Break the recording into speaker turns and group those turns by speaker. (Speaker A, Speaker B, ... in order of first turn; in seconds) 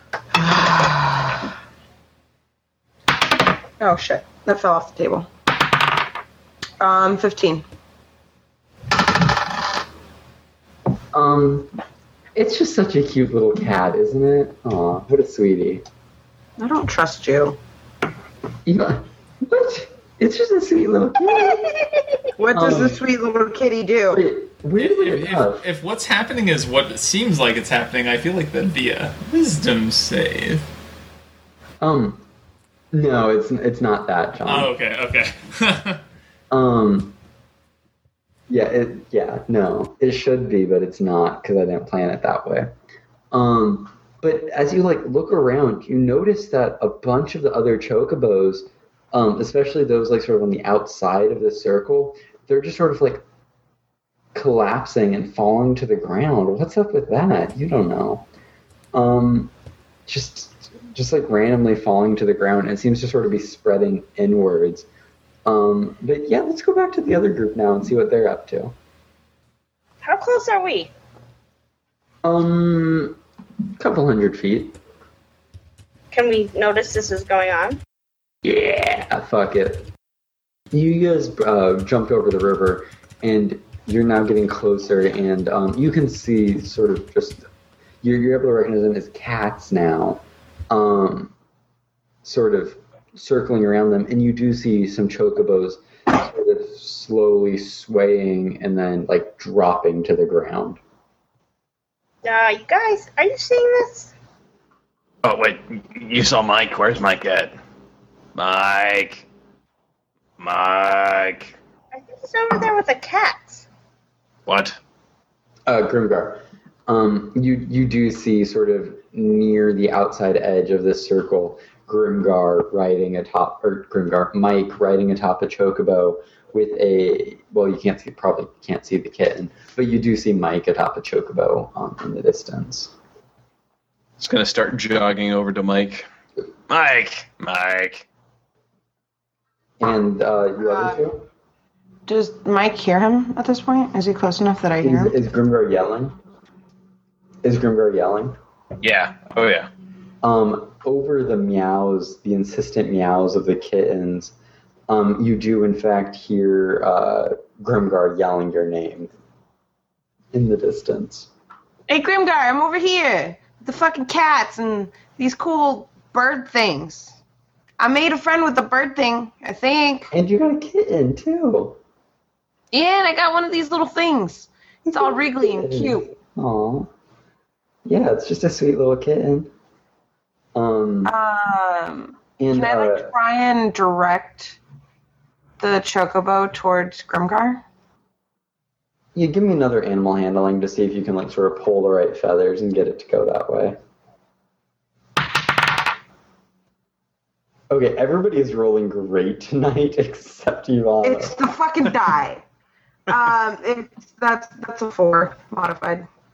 Speaker A: 0.4-1.2, 3.8-5.3, 6.8-7.6, 16.6-17.6, 22.4-24.2, 140.6-141.0, 142.1-145.1, 161.9-167.2, 167.8-170.1, 172.7-176.1, 181.0-184.6, 185.6-187.6, 201.0-202.4, 203.1-206.1
Speaker B: 11.1-11.7, 12.3-15.8, 18.6-21.8, 22.5-23.0, 24.1-25.6, 31.8-32.2, 32.9-34.7, 36.5-37.1, 38.5-42.7, 43.3-53.2, 54.3-58.2, 58.9-59.5, 60.1-64.9, 65.5-68.7, 72.2-73.2, 73.8-74.8, 78.4-79.9, 80.7-87.4, 88.0-91.3, 92.2-100.8, 115.7-132.9, 139.8-141.2, 144.8-146.2, 147.4-148.4, 150.2-154.3, 154.9-159.1, 160.3-161.3, 170.1-171.8, 174.9-176.9, 177.8-179.5, 180.5-181.1, 182.4-183.1, 189.1-193.8, 197.7-201.3
Speaker C: 24.8-30.6, 34.4-36.0
Speaker D: 70.0-70.9, 76.1-77.8, 102.2-104.1, 111.9-113.7
Speaker E: 105.2-107.5, 108.3-109.2, 110.4-111.5, 114.5-114.8, 134.2-136.1, 136.7-138.1, 148.8-149.7